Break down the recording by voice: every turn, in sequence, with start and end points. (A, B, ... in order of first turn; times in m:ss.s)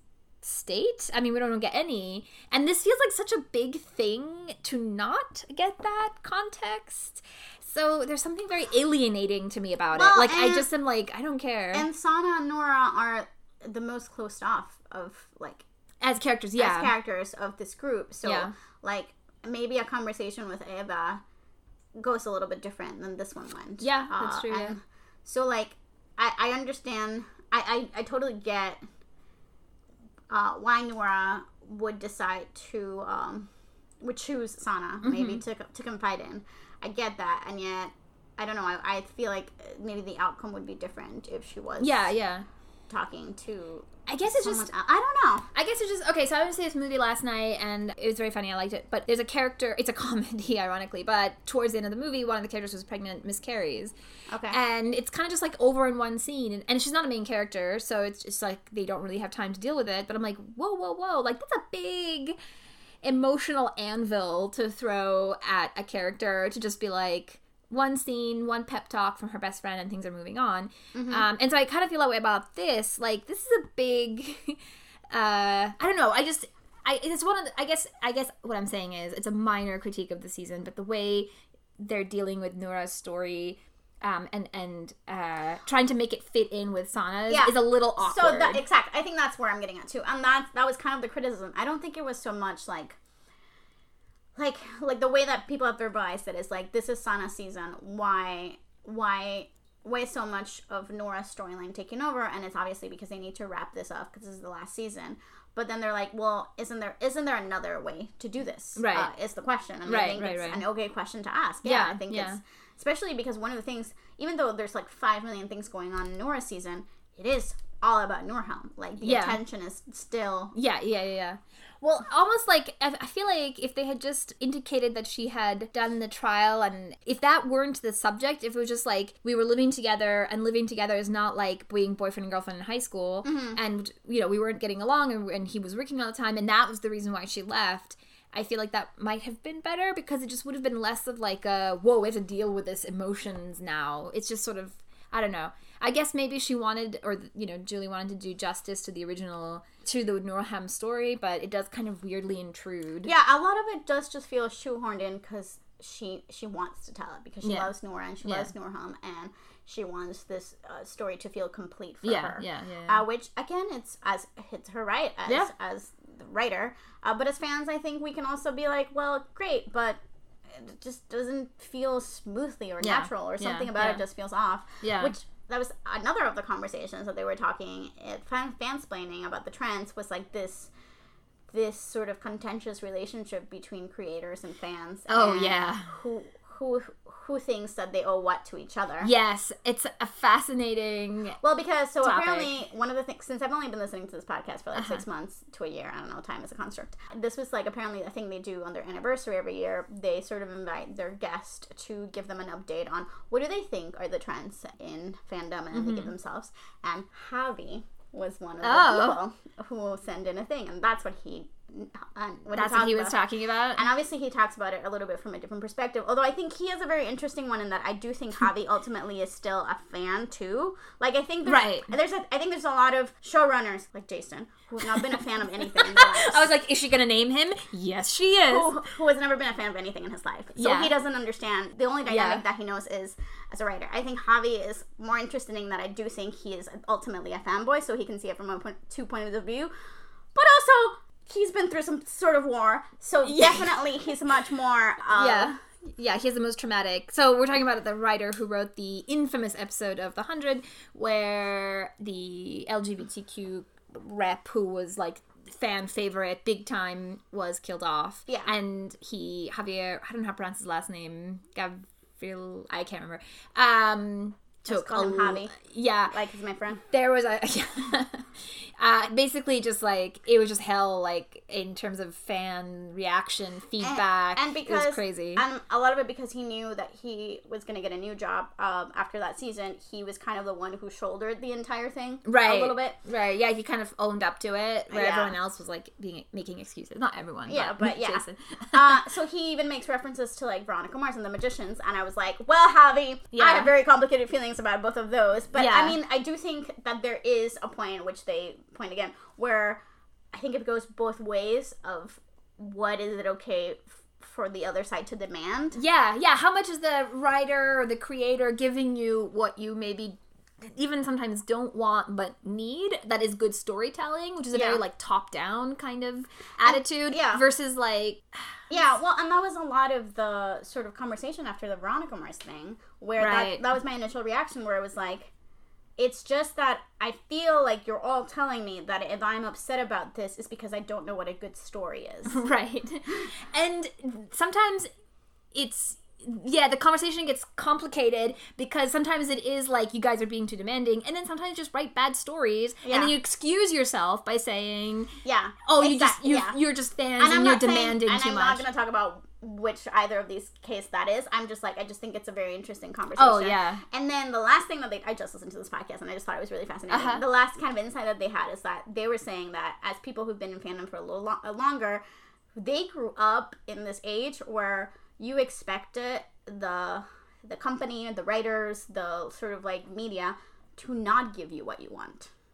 0:00.4-0:11.9 A
0:09.9-0:10.7 B
0:11.7-0:15.6 B
0:16.0-0:16.9 A
0:16.6-0:21.2 B
0:18.2-0:18.5 A
0:22.0-0:28.8 B
0:23.8-0:24.8 A
0:30.3-0:33.5 B
0:34.0-0:42.1 B
0:35.0-0:35.4 A
0:41.8-0:42.4 A
0:42.9-0:45.5 B
0:44.1-0:44.7 A
0:45.5-0:53.9 A
0:54.3-0:54.6 B
0:54.5-1:02.4 A
1:03.0-1:14.6 A
1:10.9-1:11.3 B
1:15.1-1:28.6 A
1:27.3-1:33.0 B
1:34.4-2:00.5 B
1:48.8-1:49.1 A
1:49.9-1:50.6 A
1:51.6-1:52.4 A
1:59.0-1:59.4 A
2:00.5-2:33.1 A
2:13.2-2:13.6 B
2:33.0-2:50.0 B
2:37.4-2:37.7 A
2:38.2-2:38.5 A
2:42.0-2:43.0 A
2:50.5-3:00.7 B
2:52.8-2:54.0 A
2:54.8-2:55.1 A
3:01.5-3:09.1 B
3:05.1-3:05.9 A
3:09.0-3:11.4 A
3:11.4-3:33.2 B
3:12.0-3:12.5 A
3:14.8-3:15.0 A
3:25.7-3:26.1 A
3:28.6-3:29.2 A
3:32.6-3:33.9 A
3:33.8-3:46.5 B
3:41.5-3:41.9 A
3:44.8-3:48.7 A
3:48.5-3:59.7 B
3:50.6-3:51.0 A
3:52.1-3:52.4 A
4:00.4-4:05.6 B
4:03.2-4:03.7 A
4:05.2-4:26.2 A
4:24.6-4:25.6 B
4:26.1-4:26.8 B
4:26.9-4:35.4 A
4:33.8-4:43.0 B
4:42.3-4:49.0 A
4:44.9-4:45.3 B
4:47.5-4:59.8 B
4:53.3-4:53.7 A
4:55.5-4:56.0 A
5:00.3-5:05.8 B
5:05.8-5:18.5 A
5:14.5-5:14.8 B
5:16.6-5:17.4 B
5:18.7-5:25.3 B
5:23.2-5:23.6 A
5:26.0-5:32.4 B
5:32.3-5:34.9 A
5:35.5-5:45.1 A
5:42.8-5:43.1 B
5:45.2-5:46.6 B
5:45.7-5:48.6 A
5:47.2-6:02.0 B
5:53.2-5:53.8 A
5:56.9-5:57.2 A
6:02.6-6:12.3 B